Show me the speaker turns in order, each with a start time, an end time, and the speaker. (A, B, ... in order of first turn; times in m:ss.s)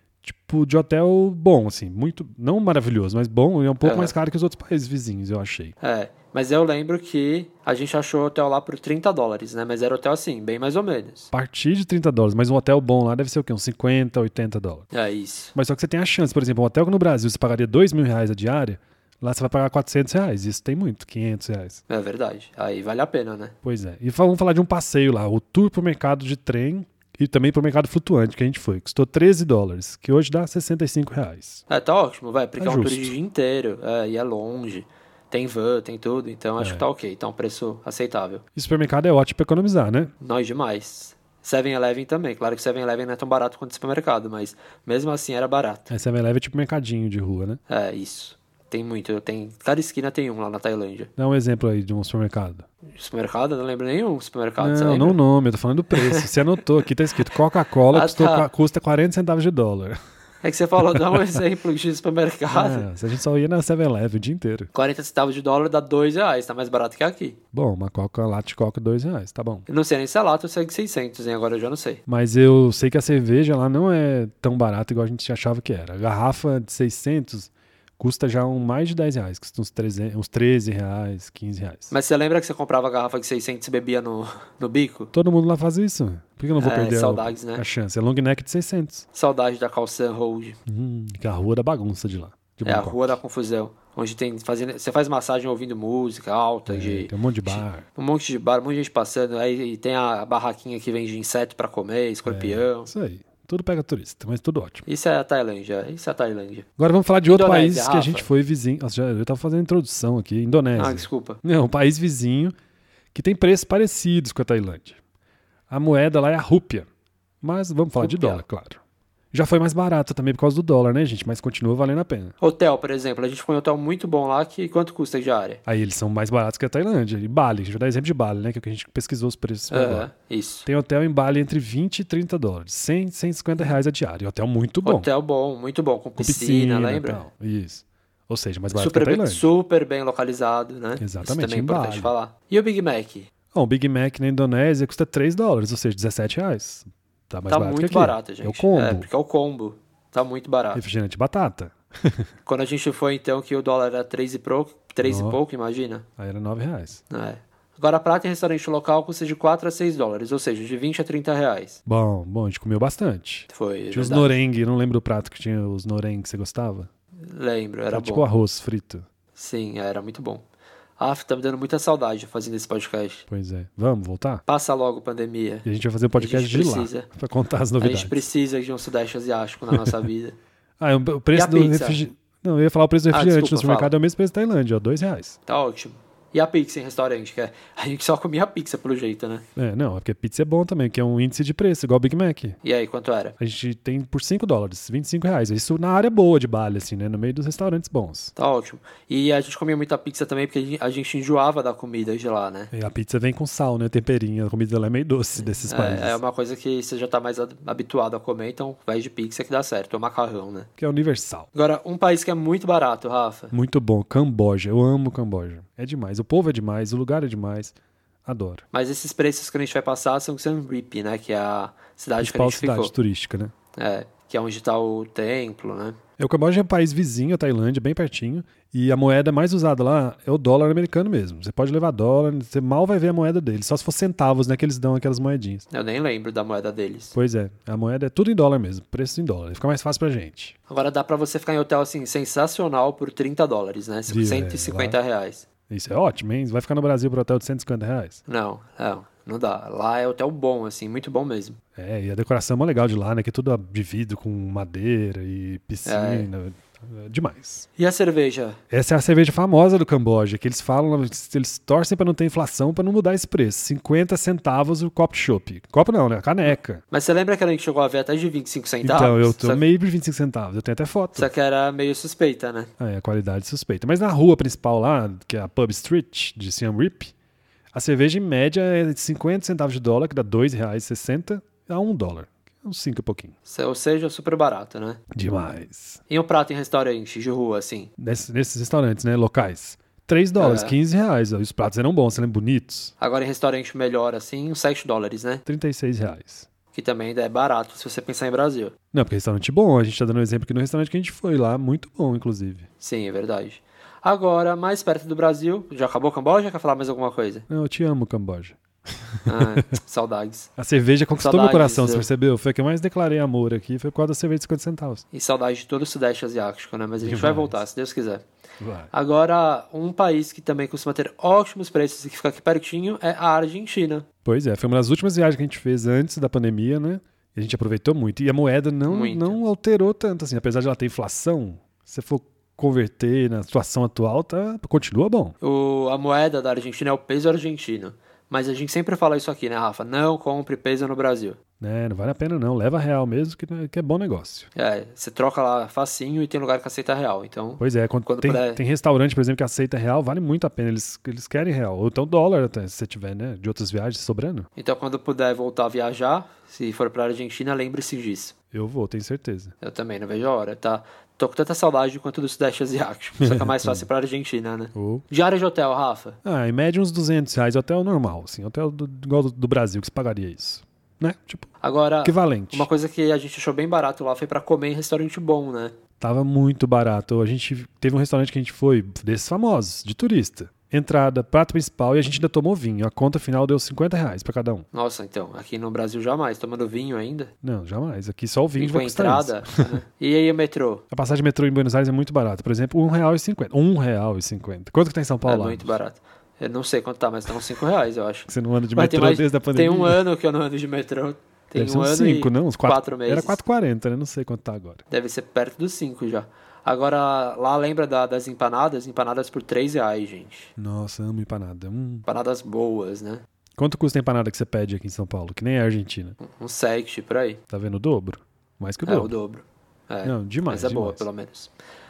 0:00.2-0:05.7 A
0:03.8-0:04.1 B
0:05.8-0:11.3 B
0:11.3-0:14.8 A
0:14.9-0:15.5 B
0:15.5-0:21.8 A
0:21.9-0:23.5 B
0:23.6-0:31.6 A
0:31.7-0:38.4 B
0:32.6-0:33.1 A
0:36.6-0:36.8 A
0:38.5-0:40.1 A
0:40.2-0:45.9 B
0:45.9-0:47.6 A
0:47.7-0:51.1 B
0:51.2-0:52.6 A
0:52.9-0:55.2 B
0:54.6-1:00.0 A
0:55.9-0:56.3 B
0:57.9-0:58.5 B
1:00.4-1:02.8 B
1:00.9-1:01.4 A
1:02.5-1:04.7 A
1:04.7-1:07.4 B
1:07.5-1:09.6 A
1:09.7-1:12.0 B
1:12.1-1:21.9 A
1:21.9-1:25.1 B
1:25.1-1:29.0 A
1:26.6-1:27.6 B
1:29.1-1:30.6 B
1:30.7-1:33.2 A
1:32.6-1:42.9 B
1:36.7-1:37.8 A
1:42.3-1:44.8 A
1:44.8-1:46.6 B
1:46.8-1:52.5 A
1:47.3-1:48.3 B
1:50.8-1:51.4 B
1:53.1-1:55.0 A
1:55.7-1:56.9 A
1:57.4-1:58.8 A
1:58.0-1:58.4 B
1:59.3-2:02.3 A
2:02.4-2:05.6 B
2:05.6-2:10.1 A
2:09.7-2:10.6 B
2:10.6-2:15.1 A
2:14.8-2:17.2 B
2:16.2-2:19.4 A
2:18.7-2:23.3 B
2:21.0-2:22.1 A
2:23.5-2:29.1 A
2:27.5-2:30.8 B
2:30.7-2:32.3 A
2:32.4-2:36.0 B
2:35.0-2:35.4 A
2:36.2-2:37.0 A
2:37.1-2:41.8 B
2:41.8-2:46.9 A
2:43.5-2:44.3 B
2:47.2-2:48.2 B
2:47.9-2:49.0 A
2:49.3-2:50.4 B
2:51.0-2:53.2 B
2:53.3-2:54.4 A
2:54.5-2:57.1 B
2:55.6-2:58.2 A
2:57.8-3:00.4 B
3:00.8-3:05.4 A
3:01.3-3:02.0 B
3:03.1-3:03.9 B
3:05.5-3:09.4 B
3:09.6-3:12.6 A
3:12.6-3:13.4 B
3:13.4-3:18.3 A
3:18.4-3:22.7 B
3:22.7-3:26.2 A
3:25.7-3:30.7 B
3:30.8-3:31.5 A
3:31.5-3:33.5 B
3:33.5-3:38.6 A
3:38.7-3:42.9 B
3:42.2-3:43.5 A
3:43.8-3:46.0 B
3:46.2-3:55.6 A
3:55.7-3:57.1 B
3:57.1-4:00.5 A
4:00.7-4:05.4 B
4:04.1-4:05.0 A
4:05.7-4:08.2 A
4:08.3-4:11.6 B
4:11.8-4:17.7 A
4:15.8-4:16.3 B
4:17.8-4:18.6 B
4:18.7-4:26.8 A
4:26.9-4:29.6 B
4:28.8-4:31.3 A
4:31.2-4:32.7 B
4:32.8-4:37.1 A
4:37.7-4:43.3 A
4:43.4-4:45.0 B
4:45.1-4:46.0 A
4:46.1-4:47.9 B
4:48.0-4:52.9 A
4:50.4-4:50.7 B
4:53.0-4:55.4 B
4:55.4-4:56.5 A
4:56.7-4:58.7 B
4:58.9-5:02.7 A
5:02.8-5:07.4 B
5:07.5-5:09.7 A
5:09.2-5:10.5 B
5:10.6-5:15.0 A
5:11.2-5:12.1 B
5:15.1-5:18.2 B
5:17.0-5:17.6 A
5:18.6-5:18.9 A
5:18.9-5:24.0 B
5:24.2-5:35.4 A
5:28.9-5:29.4 B
5:35.4-5:41.4 B
5:41.6-5:44.5 A
5:44.5-5:48.6 B
5:47.6-5:54.5 A
5:54.6-5:58.3 B
5:58.5-5:59.5 A
5:59.6-6:06.2 B
6:03.2-6:03.8 A
6:04.7-6:05.0 A
6:06.2-6:11.5 A
6:11.6-6:15.7 B
6:12.0-6:12.7 A
6:16.0-6:24.6 A
6:24.7-6:27.3 B
6:27.4-6:29.7 A
6:28.6-6:30.8 B
6:30.9-6:35.8 A
6:35.2-6:43.4 B
6:38.3-6:40.0 A
6:41.5-6:44.8 A
6:44.9-6:50.5 B
6:50.6-6:52.0 A
6:52.1-6:53.2 B
6:53.6-6:56.2 A
6:56.2-6:57.4 B
6:57.5-6:59.1 A
6:58.8-7:01.5 B
7:00.0-7:01.0 A